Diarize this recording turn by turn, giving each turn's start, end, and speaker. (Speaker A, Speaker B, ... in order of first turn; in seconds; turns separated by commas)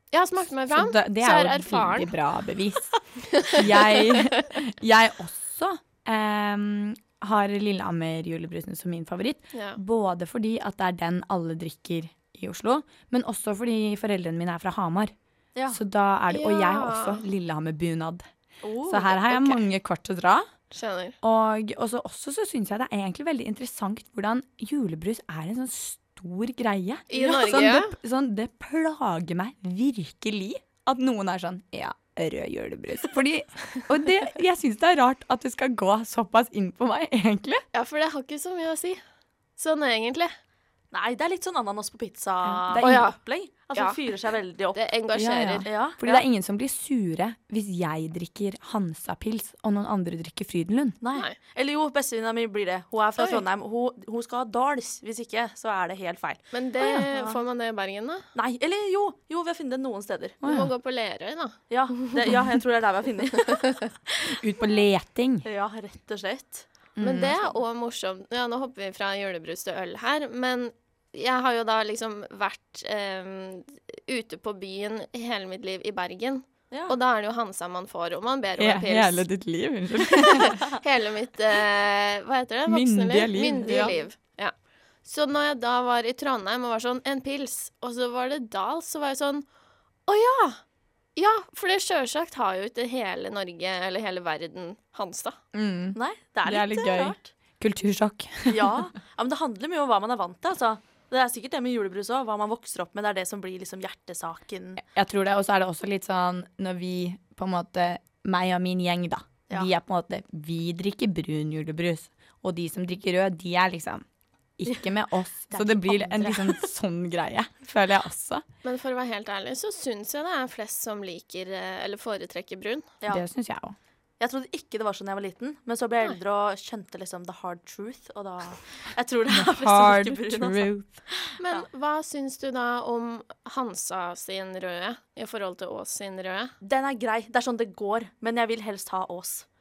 Speaker A: 0.1-2.1, Speaker B: 0.7-15.1, Speaker A: 9.5-9.8, Speaker B: 15.7-18.3, Speaker A: 16.3-17.2, Speaker C: 18.6-19.6, Speaker B: 18.9-20.5, Speaker A: 20.7-21.1, Speaker B: 21.2-37.6, Speaker A: 27.1-27.9, Speaker C: 27.1-27.6, Speaker A: 37.7-39.0, Speaker A: 39.6-40.3, Speaker C: 40.9-44.8, Speaker B: 42.4-43.0, Speaker A: 42.8-43.2, Speaker A: 44.7-45.6, Speaker B: 45.1-51.0, Speaker C: 45.6-46.2, Speaker C: 51.0-57.4, Speaker A: 53.2-53.4, Speaker A: 56.5-58.2, Speaker C: 58.3-60.4, Speaker B: 60.4-60.7, Speaker A: 60.4-61.6, Speaker C: 61.7-64.3, Speaker A: 63.5-63.8, Speaker B: 64.3-65.5, Speaker C: 65.4-66.7, Speaker B: 67.0-67.3, Speaker A: 67.0-79.2, Speaker C: 67.3-67.6, Speaker C: 76.7-77.0, Speaker B: 78.6-80.6, Speaker A: 80.1-84.5, Speaker B: 82.7-83.9, Speaker C: 83.6-84.0, Speaker A: 85.0-89.4, Speaker A: 90.1-90.6, Speaker A: 91.2-95.4, Speaker B: 95.5-98.8, Speaker C: 95.9-97.3, Speaker C: 98.5-104.8, Speaker B: 104.8-114.0, Speaker B: 114.6-118.4, Speaker C: 115.5-116.7, Speaker A: 118.6-122.9, Speaker B: 123.1-123.8, Speaker C: 124.2-131.7, Speaker B: 129.3-131.0, Speaker A: 131.4-136.5, Speaker C: 136.6-139.4